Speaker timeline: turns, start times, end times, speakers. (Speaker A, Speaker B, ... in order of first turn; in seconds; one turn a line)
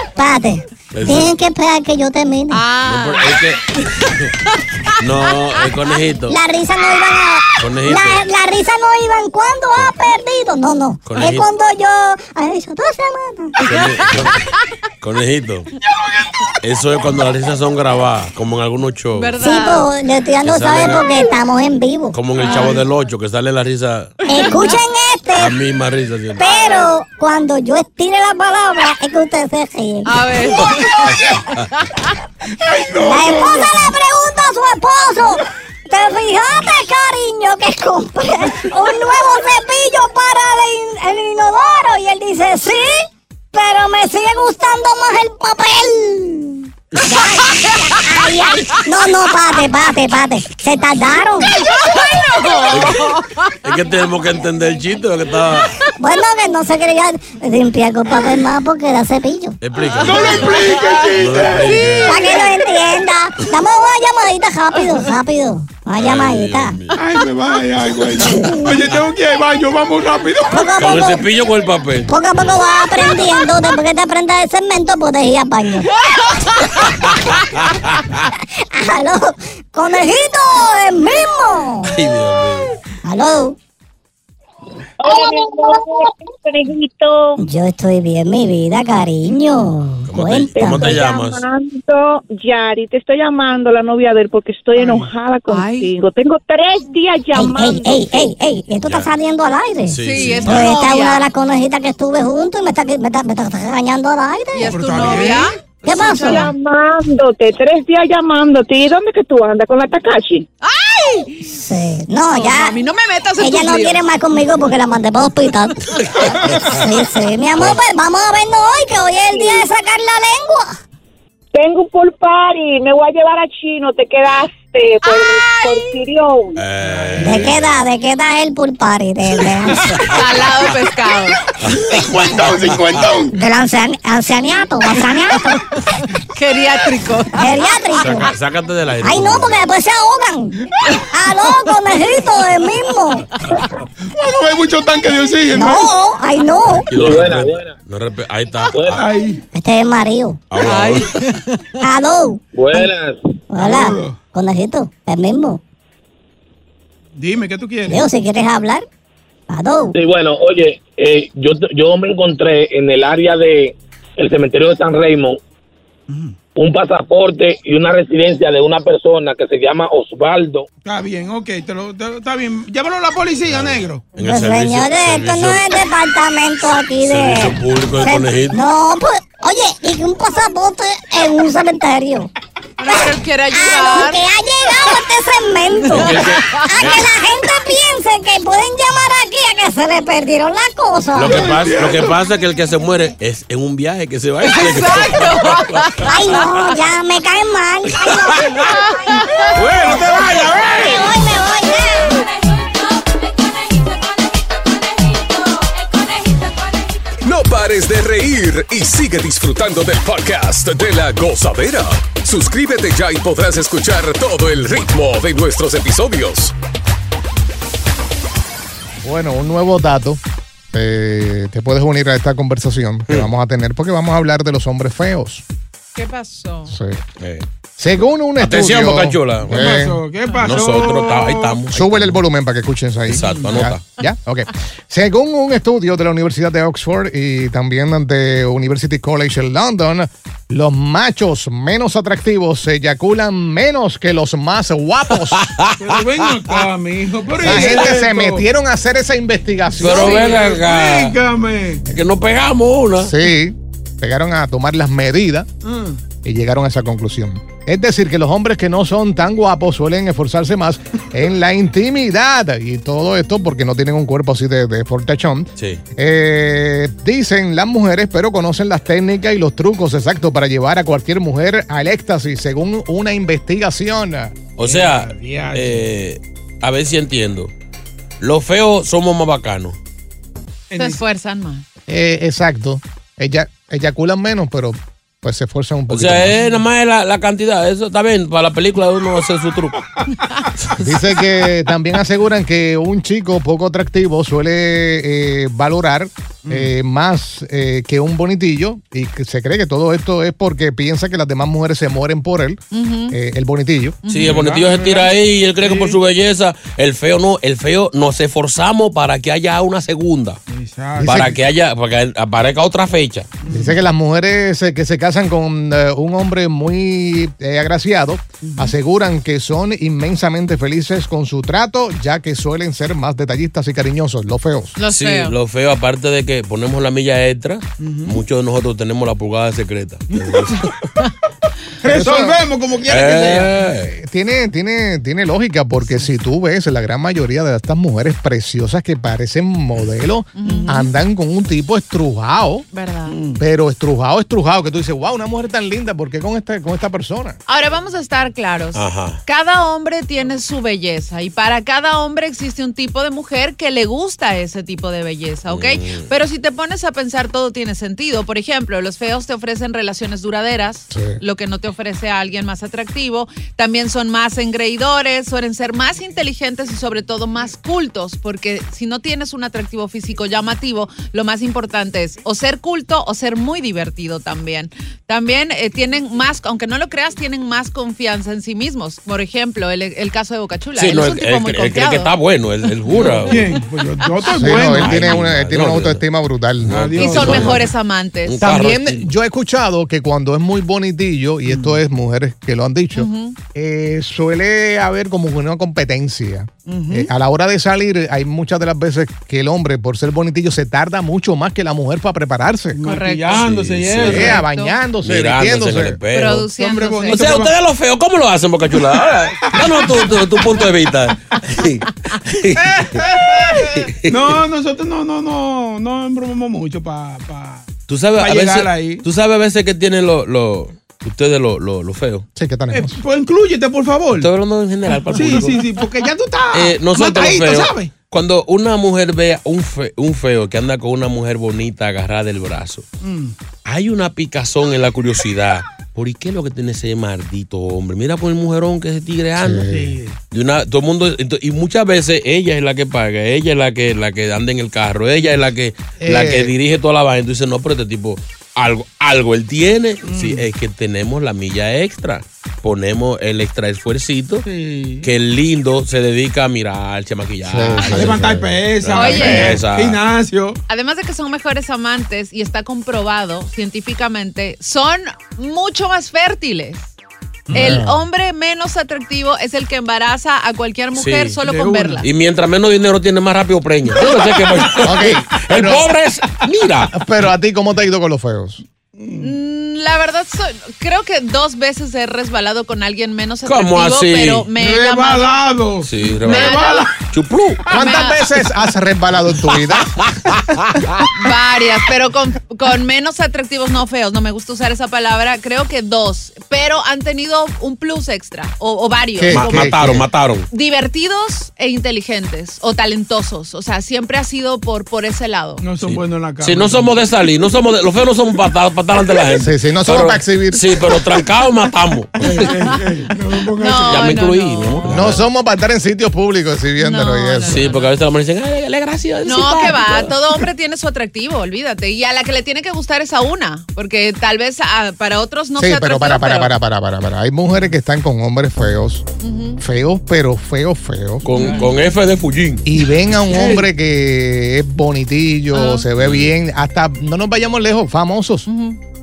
Speaker A: 0.1-2.6
Speaker B: 0.9-1.3
Speaker C: 2.5-5.0
Speaker B: 2.8-4.3
Speaker B: 5.0-6.4
Speaker A: 6.3-13.7
Speaker B: 7.6-8.2
Speaker B: 11.0-11.5
Speaker C: 13.6-14.3
Speaker B: 13.6-14.5
Speaker B: 15.0-15.7
Speaker B: 16.6-19.4
Speaker C: 19.1-19.9
Speaker A: 19.4-22.1
Speaker B: 20.4-21.0
Speaker B: 22.1-24.2
Speaker C: 22.4-22.8
Speaker D: 22.4-22.7
Speaker A: 24.2-25.6
Speaker C: 24.3-24.7
Speaker B: 25.4-26.4
Speaker A: 26.4-30.3
Speaker C: 26.4-26.9
Speaker C: 30.1-31.1
Speaker D: 30.9-31.4
Speaker B: 31.1-31.7
Speaker C: 31.6-32.1
Speaker D: 32.5-33.9
Speaker A: 32.9-51.6
Speaker C: 51.7-53.6
Speaker B: 52.7-55.8
Speaker A: 56.0-59.6
Speaker B: 59.6-62.4
Speaker D: 59.9-62.5
Speaker C: 60.0-60.4
Speaker A: 62.0-66.8
Speaker B: 66.0-67.0
Speaker D: 66.9-70.7
Speaker A: 68.2-68.8
Speaker A: 70.5-71.2
Speaker B: 70.8-72.1
Speaker A: 72.1-76.0
Speaker B: 76.8-78.2
Speaker A: 78.7-82.0
Speaker B: 81.9-82.8
Speaker A: 83.0-83.5
Speaker E: 85.0-87.4
Speaker A: 87.4-91.0
Speaker B: 90.1-91.4
Speaker E: 90.5-98.3
Speaker D: 94.8-95.1
Speaker C: 95.5-95.9
Speaker A: 97.3-105.3
Speaker B: 98.8-99.1
Speaker B: 99.9-100.7
Speaker C: 100.0-101.2
Speaker C: 104.5-106.5
Speaker D: 104.7-105.6
Speaker A: 105.8-106.5
Speaker E: 105.9-110.5
Speaker C: 110.6-111.5
Speaker A: 111.4-112.8
Speaker C: 112.3-114.0
Speaker A: 113.4-120.8
Speaker B: 116.0-116.8
Speaker B: 117.5-117.8
Speaker E: 119.3-119.6
Speaker E: 121.5-126.6
Speaker B: 126.5-127.8
Speaker D: 126.8-127.5
Speaker A: 127.2-130.1
Speaker C: 130.1-131.4
Speaker B: 131.6-133.1
Speaker D: 131.6-133.3
Speaker A: 133.3-135.6
Speaker C: 135.7-137.5
Speaker A: 137.3-138.3
Speaker B: 138.0-139.6
Speaker A: 139.0-140.6
Speaker D: 140.7-141.1
Speaker A: 141.1-143.3
Speaker C: 143.3-143.7
Speaker D: 144.1-145.9
Speaker A: 145.5-146.9
Speaker B: 146.9-149.0
Speaker F: 146.9-147.7
Speaker F: 148.7-149.0
Speaker D: 148.9-149.4
Speaker A: 149.5-150.4
Speaker B: 150.5-151.2
Speaker C: 150.6-151.8
Speaker A: 151.8-152.4
Speaker F: 152.5-153.3
Speaker A: 153.5-155.6
Speaker D: 153.6-154.2
Speaker D: 157.2-158.1
Speaker A: 157.9-158.8
Speaker A: 159.5-159.9
Speaker F: 159.9-165.4
Speaker D: 166.1-166.3
Speaker F: 166.6-170.7
Speaker D: 170.8-174.1
Speaker B: 173.5-175.6
Speaker A: 174.2-182.3
Speaker B: 177.0-178.6
Speaker C: 182.8-184.2
Speaker A: 182.9-191.5
Speaker C: 185.8-186.7
Speaker B: 185.9-187.2
Speaker B: 191.1-196.1
Speaker D: 191.3-192.2
Speaker C: 194.4-196.1
Speaker A: 196.0-199.2
Speaker B: 198.1-198.5
Speaker C: 198.7-199.5
Speaker B: 199.5-201.0
Speaker D: 199.6-200.8
Speaker A: 199.9-202.2
Speaker G: 207.2-216.5
Speaker H: 219.0-220.2
Speaker H: 220.7-225.4
Speaker C: 225.9-226.7
Speaker H: 226.7-227.0
Speaker B: 227.2-227.4
Speaker H: 227.8-230.0
Speaker B: 228.4-229.6
Speaker D: 229.5-231.6
Speaker B: 230.4-232.2
Speaker H: 231.7-245.5
Speaker B: 233.1-233.8
Speaker D: 233.2-233.6
Speaker B: 245.3-246.6
Speaker D: 245.8-248.4
Speaker H: 247.4-250.4
Speaker B: 249.8-251.2
Speaker D: 249.8-251.8
Speaker B: 251.9-253.1
Speaker H: 253.0-255.5
Speaker D: 255.6-256.0
Speaker H: 256.2-274.4
Speaker B: 265.6-265.8
Speaker B: 274.6-277.5
Speaker D: 274.6-275.8
Speaker B: 278.2-279.8
Speaker D: 280.7-281.0
Speaker C: 280.8-281.6
Speaker H: 281.9-286.4
Speaker B: 285.9-289.9
Speaker H: 290.8-304.0
Speaker C: 302.7-303.1
Speaker C: 304.0-304.4
Speaker B: 304.1-310.4
Speaker D: 304.2-306.0
Speaker D: 310.5-311.3
Speaker H: 311.0-311.4
Speaker B: 311.0-313.3
Speaker D: 313.4-313.8
Speaker H: 313.5-324.8
Speaker D: 318.4-318.7
Speaker C: 324.8-325.3
Speaker B: 324.9-330.7
Speaker D: 327.8-328.2
Speaker D: 330.1-330.8
Speaker D: 331.8-333.6
Speaker H: 331.8-332.4
Speaker B: 332.9-333.9
Speaker H: 333.9-342.6
Speaker C: 340.4-340.9
Speaker C: 342.7-343.2
Speaker D: 343.1-343.4
Speaker H: 343.4-347.4
Speaker C: 347.5-382.1
Speaker B: 348.7-349.2
Speaker B: 355.5-356.1
Speaker H: 360.9-361.2
Speaker B: 380.7-383.5
Speaker D: 382.9-385.2
Speaker C: 383.0-383.4
Speaker H: 384.3-387.6
Speaker B: 384.5-386.0
Speaker B: 386.6-387.7
Speaker D: 386.7-387.6
Speaker C: 387.0-388.4
Speaker B: 388.2-389.1
Speaker H: 388.4-402.8
Speaker D: 391.5-391.8
Speaker C: 392.9-393.4
Speaker D: 396.6-397.1
Speaker D: 402.7-404.4
Speaker C: 402.8-403.5
Speaker B: 403.3-404.4
Speaker H: 404.0-406.0
Speaker C: 404.1-404.8
Speaker B: 405.0-406.5
Speaker C: 406.1-407.3
Speaker D: 406.5-407.5
Speaker B: 407.1-414.4
Speaker D: 409.4-410.2
Speaker D: 412.6-419.0
Speaker B: 417.9-422.3
Speaker H: 422.4-423.0
Speaker D: 422.7-424.3
Speaker B: 424.1-425.6
Speaker D: 425.0-427.9
Speaker B: 426.5-432.9
Speaker D: 433.0-433.3
Speaker B: 433.6-439.7
Speaker H: 439.4-440.0
Speaker D: 439.7-440.2
Speaker B: 440.3-454.5
Speaker H: 446.0-446.5
Speaker D: 450.0-450.4
Speaker D: 454.4-455.1
Speaker B: 455.0-460.0
Speaker H: 457.4-458.4
Speaker D: 457.8-460.6
Speaker C: 458.9-459.6
Speaker C: 460.7-466.9
Speaker D: 467.5-467.8
Speaker H: 467.5-468.0
Speaker C: 467.5-472.1
Speaker B: 470.9-471.4
Speaker D: 471.4-472.1
Speaker B: 472.0-476.9
Speaker D: 474.0-474.9
Speaker H: 474.8-475.9
Speaker H: 476.9-478.6
Speaker D: 478.9-479.4
Speaker C: 479.2-485.5
Speaker B: 483.4-484.5
Speaker D: 484.6-487.1
Speaker B: 485.8-487.6
Speaker C: 486.2-486.9
Speaker H: 487.7-490.1
Speaker C: 487.7-488.2
Speaker B: 490.5-490.7
Speaker C: 491.1-499.7
Speaker H: 499.1-500.1
Speaker B: 499.3-500.5
Speaker C: 500.5-505.6
Speaker D: 505.6-507.0
Speaker B: 505.8-512.5
Speaker H: 509.4-510.9
Speaker D: 512.2-514.2
Speaker C: 513.6-514.9
Speaker B: 513.9-515.2
Speaker H: 514.9-517.6
Speaker C: 516.8-517.9
Speaker B: 517.4-520.1
Speaker C: 519.2-526.5
Speaker H: 525.6-529.0
Speaker C: 529.2-529.6
Speaker H: 529.6-531.2
Speaker B: 531.2-532.6
Speaker D: 531.4-531.7
Speaker H: 532.6-538.5
Speaker D: 533.3-533.6
Speaker C: 535.5-535.9
Speaker B: 536.0-536.3
Speaker C: 538.5-538.8